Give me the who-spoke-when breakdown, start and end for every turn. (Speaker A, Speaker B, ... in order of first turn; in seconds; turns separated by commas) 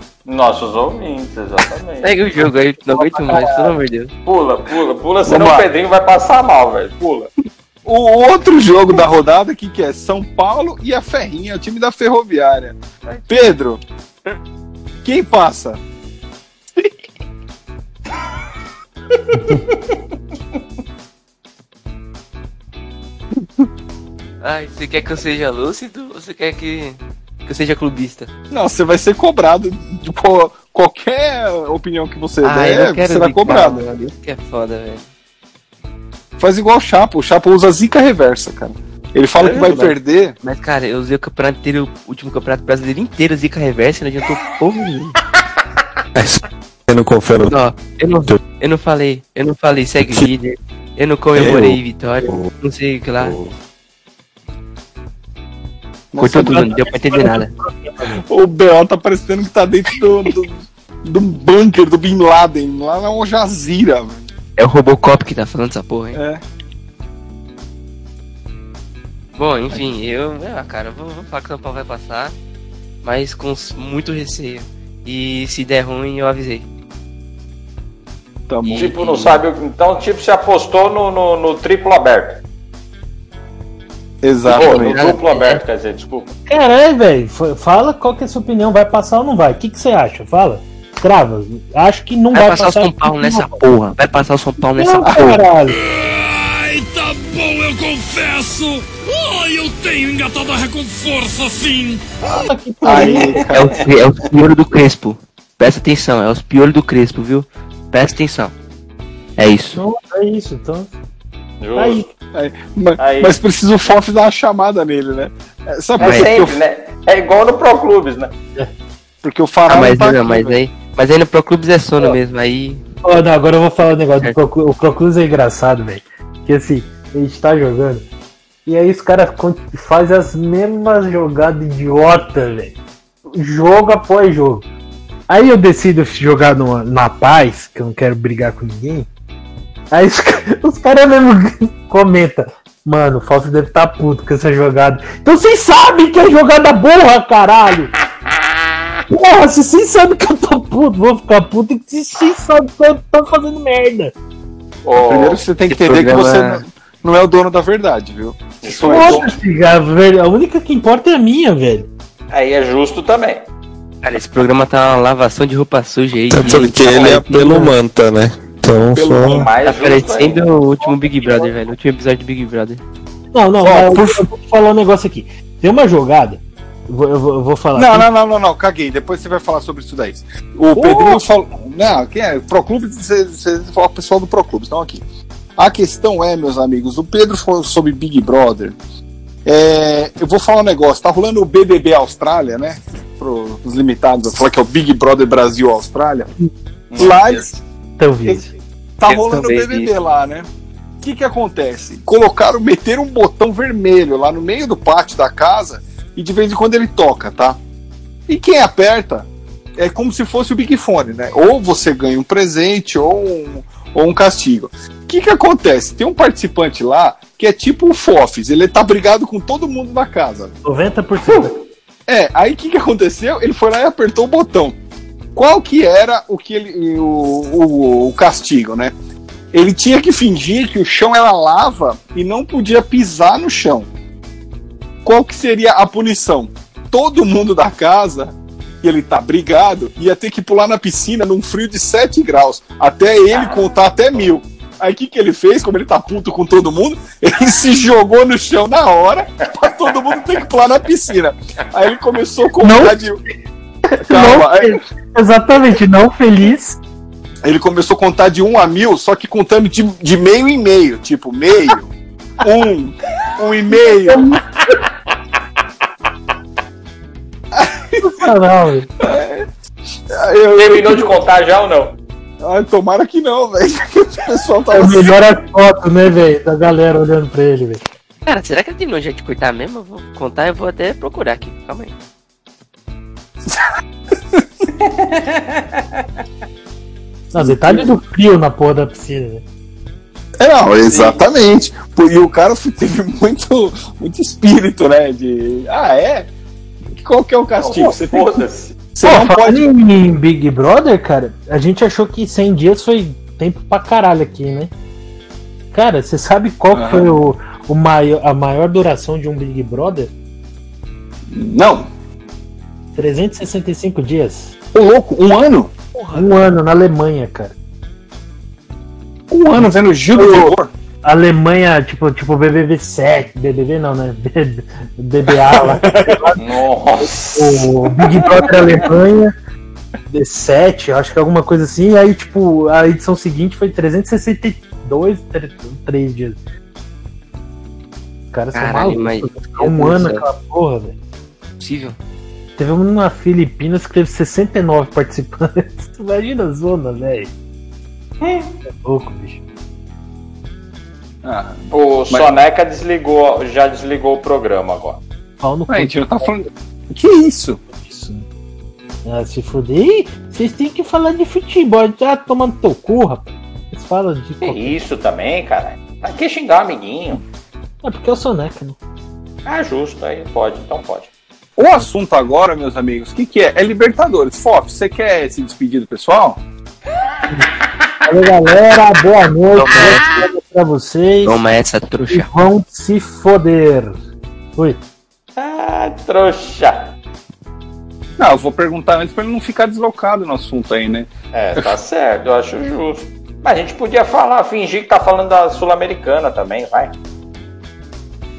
Speaker A: 0.3-2.1, Speaker B: 2.0-4.1, Speaker C: 2.9-3.7, Speaker A: 4.3-7.3, Speaker D: 5.2-5.7, Speaker D: 7.8-13.8, Speaker D: 15.0-15.8, Speaker C: 19.3-19.6, Speaker B: 24.4-28.3, Speaker D: 28.5-33.8, Speaker B: 32.4-35.1, Speaker D: 36.4-40.4, Speaker B: 39.4-45.1, Speaker E: 46.1-47.6, Speaker B: 47.5-53.4, Speaker E: 51.4-52.5, Speaker E: 53.2-53.5, Speaker D: 56.1-56.7, Speaker B: 56.2-57.5, Speaker C: 56.4-58.2, Speaker D: 58.3-64.2, Speaker B: 64.6-66.2, Speaker D: 66.1-66.4, Speaker B: 69.4-72.3, Speaker B: 73.0-76.7, Speaker D: 78.5-79.0, Speaker B: 78.6-79.4, Speaker A: 78.8-82.4, Speaker D: 84.2-85.2, Speaker B: 84.5-85.5, Speaker A: 84.5-86.3, Speaker C: 86.5-93.6, Speaker B: 92.3-95.5, Speaker C: 94.8-95.8, Speaker F: 95.7-102.0, Speaker C: 102.3-103.4, Speaker D: 102.8-103.8, Speaker B: 103.5-108.5, Speaker B: 109.4-109.8, Speaker C: 109.7-110.9, Speaker A: 111.6-112.1, Speaker C: 111.8-112.1, Speaker D: 112.3-116.6, Speaker A: 113.0-113.4, Speaker B: 116.0-116.3, Speaker A: 116.0-118.3, Speaker D: 119.2-120.6, Speaker B: 119.7-122.8, Speaker C: 123.0-128.1, Speaker C: 128.7-132.8, Speaker C: 133.3-134.7, Speaker C: 135.3-139.1, Speaker C: 139.9-147.9, Speaker C: 149.1-154.1, Speaker A: 154.8-155.4, Speaker D: 155.1-159.3, Speaker B: 155.7-156.6, Speaker A: 158.6-159.3, Speaker C: 158.9-161.9, Speaker A: 162.3-163.4, Speaker B: 164.0-167.3, Speaker E: 166.3-169.5, Speaker D: 166.9-167.6, Speaker D: 168.9-169.4, Speaker A: 169.3-171.6, Speaker B: 169.7-172.8, Speaker C: 173.3-178.1, Speaker D: 173.6-174.3, Speaker D: 177.8-185.0, Speaker C: 180.7-181.2, Speaker D: 185.6-188.8, Speaker D: 189.4-196.3, Speaker A: 196.9-197.4, Speaker D: 197.0-197.6, Speaker C: 198.0-198.5, Speaker D: 199.0-200.5, Speaker B: 199.1-199.9, Speaker D: 201.0-207.6, Speaker D: 208.3-220.6, Speaker C: 220.7-221.6, Speaker D: 222.1-224.8, Speaker D: 225.3-228.9, Speaker D: 229.5-233.9, Speaker D: 235.1-253.2, Speaker A: 243.3-244.3, Speaker A: 249.5-250.2, Speaker C: 252.6-253.0, Speaker C: 254.0-256.8, Speaker D: 254.1-254.8, Speaker D: 257.4-261.9, Speaker D: 262.4-264.3, Speaker C: 264.1-264.4, Speaker D: 267.5-268.0, Speaker C: 268.0-268.9, Speaker D: 269.0-269.5, Speaker D: 270.1-271.1, Speaker A: 270.6-272.0, Speaker D: 272.4-275.1, Speaker C: 274.7-277.8, Speaker B: 278.3-281.9, Speaker A: 284.8-286.0, Speaker C: 287.3-289.4, Speaker D: 287.4-287.9, Speaker D: 290.4-296.3, Speaker A: 290.9-291.3, Speaker D: 297.0-299.6, Speaker A: 297.6-298.8, Speaker C: 299.0-304.7, Speaker C: 305.7-310.1, Speaker D: 306.7-307.1, Speaker D: 311.3-311.9, Speaker C: 312.9-314.5, Speaker D: 314.7-315.7, Speaker B: 316.0-316.2, Speaker C: 316.1-317.6, Speaker D: 319.3-320.7, Speaker C: 319.5-326.4, Speaker D: 325.6-326.2, Speaker A: 326.4-328.8, Speaker C: 327.1-329.3, Speaker C: 330.1-336.4, Speaker C: 338.3-340.9, Speaker B: 338.5-340.2, Speaker B: 341.6-342.0, Speaker C: 342.6-347.3, Speaker A: 348.2-348.5, Speaker C: 348.7-349.4, Speaker D: 351.2-352.3, Speaker A: 351.7-355.0, Speaker C: 355.4-356.3, Speaker D: 355.7-357.6, Speaker C: 357.7-358.2, Speaker C: 359.1-364.8, Speaker A: 364.4-367.2, Speaker C: 367.8-368.8, Speaker A: 369.5-371.1, Speaker D: 371.6-376.4, Speaker C: 378.1-381.4, Speaker B: 379.5-380.3, Speaker B: 381.2-382.3, Speaker C: 382.1-384.0, Speaker A: 385.4-386.9, Speaker D: 388.2-391.7, Speaker A: 391.3-396.9